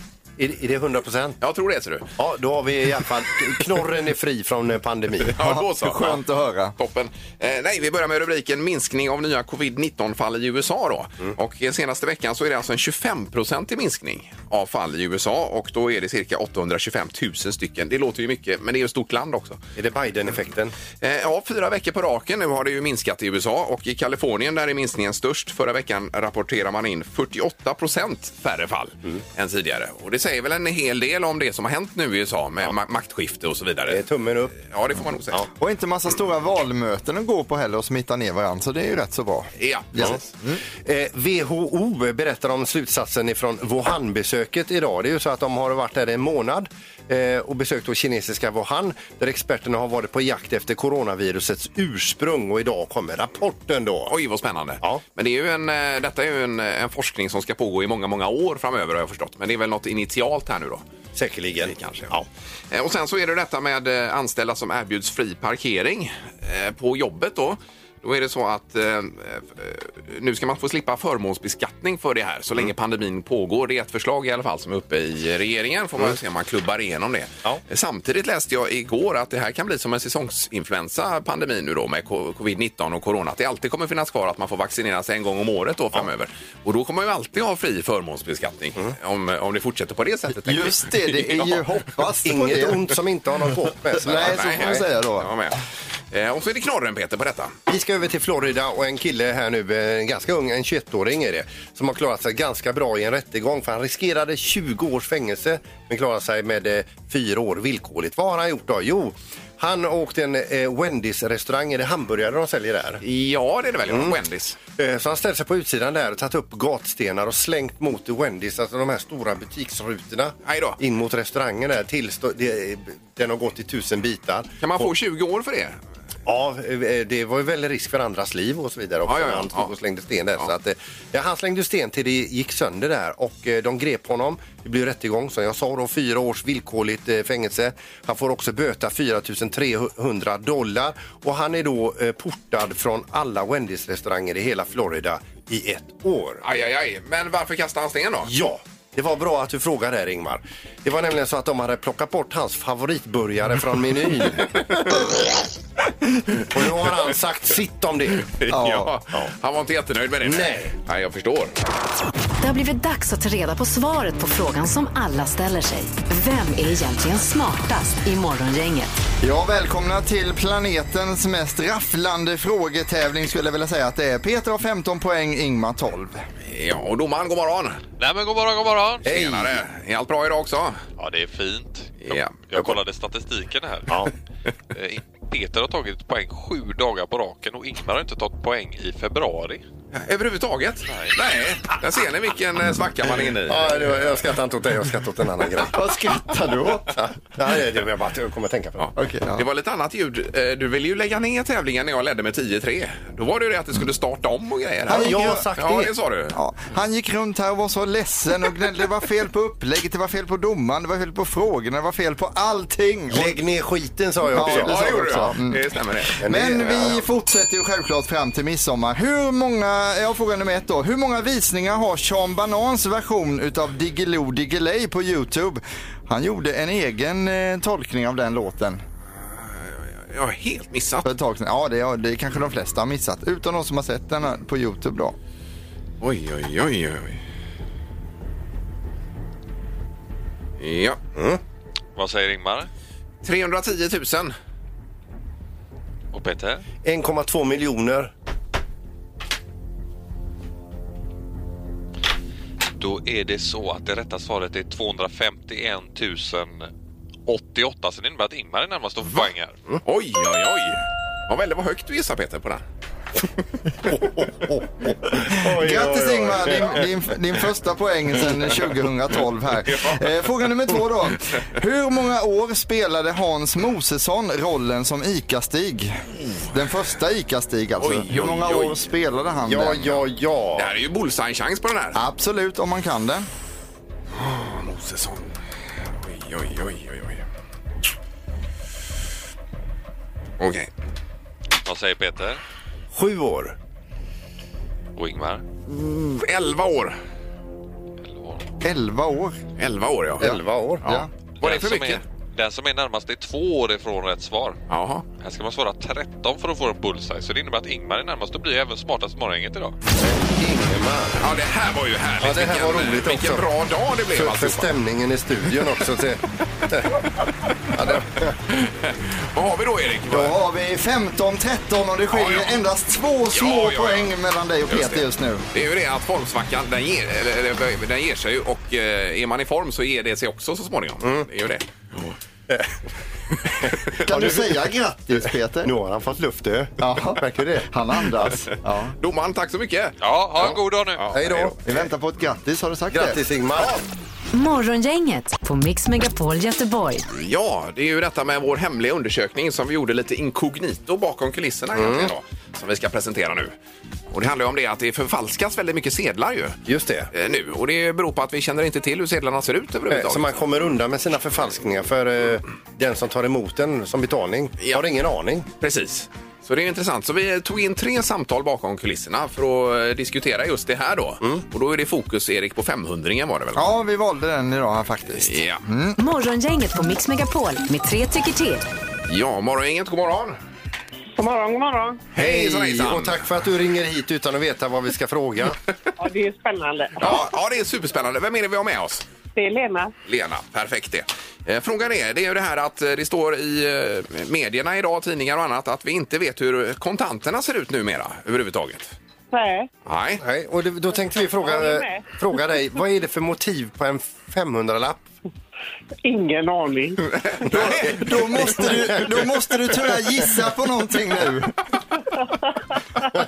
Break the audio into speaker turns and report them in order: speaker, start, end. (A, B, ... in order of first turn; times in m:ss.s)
0:00.4-0:01.4 A
0:01.4-0:02.1 B
0:02.2-0:05.3 A
0:05.3-0:06.2 B
0:05.4-0:06.7 C
0:06.8-0:19.6 B
0:19.8-0:20.7 A
0:21.0-0:34.0 B
0:33.9-0:34.5 A
0:34.5-0:35.4 B
0:35.6-0:40.2 C
0:39.6-0:40.6 B
0:40.8-0:54.1 A
0:54.1-1:00.8 B
1:01.1-1:02.3 A
1:01.6-1:02.1 B
1:02.7-1:31.6 B
1:30.3-1:32.8 C
1:32.2-1:34.7 A
1:33.9-1:35.3 C
1:34.1-1:35.6 B
1:36.1-1:37.5 B
1:37.7-1:53.0 A
1:53.0-1:54.6 B
1:53.9-1:54.2 A
1:54.8-2:04.9 A
2:00.4-2:00.8 B
2:04.6-2:05.8 B
2:06.2-2:26.4 A
2:09.0-2:09.7 B
2:26.4-2:28.3 B
2:28.2-2:34.9 A
2:36.5-2:38.2 A
2:38.2-2:41.5 B
2:38.5-2:38.9 C
2:40.2-2:40.7 A
2:42.4-2:49.0 D
2:49.2-2:56.2 C
2:56.4-2:57.8 B
2:58.0-2:59.0 E
2:59.0-3:00.8 B
2:59.0-2:59.5 A
3:01.0-3:04.1 E
3:02.0-3:02.4 B
3:04.7-3:09.6 E
3:09.9-3:13.9 B
3:10.9-3:11.2 E
3:13.5-3:15.8 A
3:15.6-3:17.0 C
3:17.0-3:18.9 A
3:18.8-3:26.4 B
3:19.0-3:19.4 C
3:24.9-3:25.5 C
3:24.9-3:25.9 A
3:26.3-3:33.4 C
3:33.1-3:35.1 A
3:34.3-3:35.6 C
3:34.4-3:36.2 B
3:36.2-3:37.0 A
3:36.2-3:48.8 C
3:49.2-3:51.1 B
3:51.0-3:55.2 C
3:56.0-3:57.2 B
4:00.6-4:01.0 B
4:01.2-4:01.4 A
4:02.0-4:02.7 E
4:03.2-4:04.3 B
4:06.1-4:06.6 E
4:06.8-4:08.1 A
4:12.8-4:16.7 E
4:17.3-4:19.6 E
4:19.0-4:19.3 B
4:19.8-4:22.6 B
4:23.8-4:26.8 A
4:25.2-4:36.0 C
4:36.5-4:40.0 C
4:37.8-4:38.8 B
4:39.4-4:40.7 A
4:40.5-4:42.0 B
4:41.9-4:43.3 C
4:44.1-4:45.3 B
4:46.0-4:47.2 B
4:50.4-4:50.7 B
4:51.6-4:52.4 E
4:52.9-4:53.5 A
4:55.0-4:55.4 E
4:55.7-4:57.0 B
4:58.0-4:58.4 E
4:58.6-4:59.4 C
4:59.6-5:00.3 B
5:00.2-5:01.0 A
5:00.2-5:01.1 C
5:01.4-5:04.6 E
5:01.4-5:02.0 B
5:04.7-5:05.0 B
5:05.2-5:09.8 E
5:10.0-5:11.2 A
5:11.2-5:14.7 B
5:12.2-5:13.5 A
5:14.1-5:17.0 A
5:17.7-5:18.3 A
5:18.5-5:20.3 B
5:20.1-5:25.4 C
5:22.1-5:22.5 B
5:23.3-5:24.1 B
5:24.7-5:32.2 B
5:31.0-5:31.3 A
5:32.5-5:32.7 A
5:33.7-5:34.6 A
5:34.0-5:35.7 C
5:35.6-5:37.4 A
5:36.8-5:39.0 C
5:39.0-5:40.0 B
5:40.0-5:41.5 E
5:41.0-5:41.3 B
5:41.1-5:41.6 A
5:41.6-5:43.2 C
5:42.9-5:43.7 A
5:44.3-5:47.0 D
5:47.1-5:53.5 B
5:51.7-5:52.1 A
5:54.1-5:56.6 B
5:56.6-5:57.1 A
5:57.1-6:00.4 B
5:59.9-6:05.5 A
6:05.6-6:13.6 B
6:13.5-6:16.0 C
6:15.1-6:15.6 B
6:16.0-6:18.6 D
6:19.1-6:20.4 B
6:21.2-6:22.0 F
6:22.1-6:23.2 B
6:22.1-6:25.6 A
6:26.0-6:27.3 F
6:27.0-6:29.0 B
6:29.3-6:29.9 F
6:30.0-6:38.9 B
6:39.3-6:39.7 F
6:39.8-6:40.2 B
6:40.2-6:45.0 A
6:41.4-6:42.2 F
6:46.0-6:47.1 F
6:47.2-6:48.2 B
6:47.5-6:51.6 C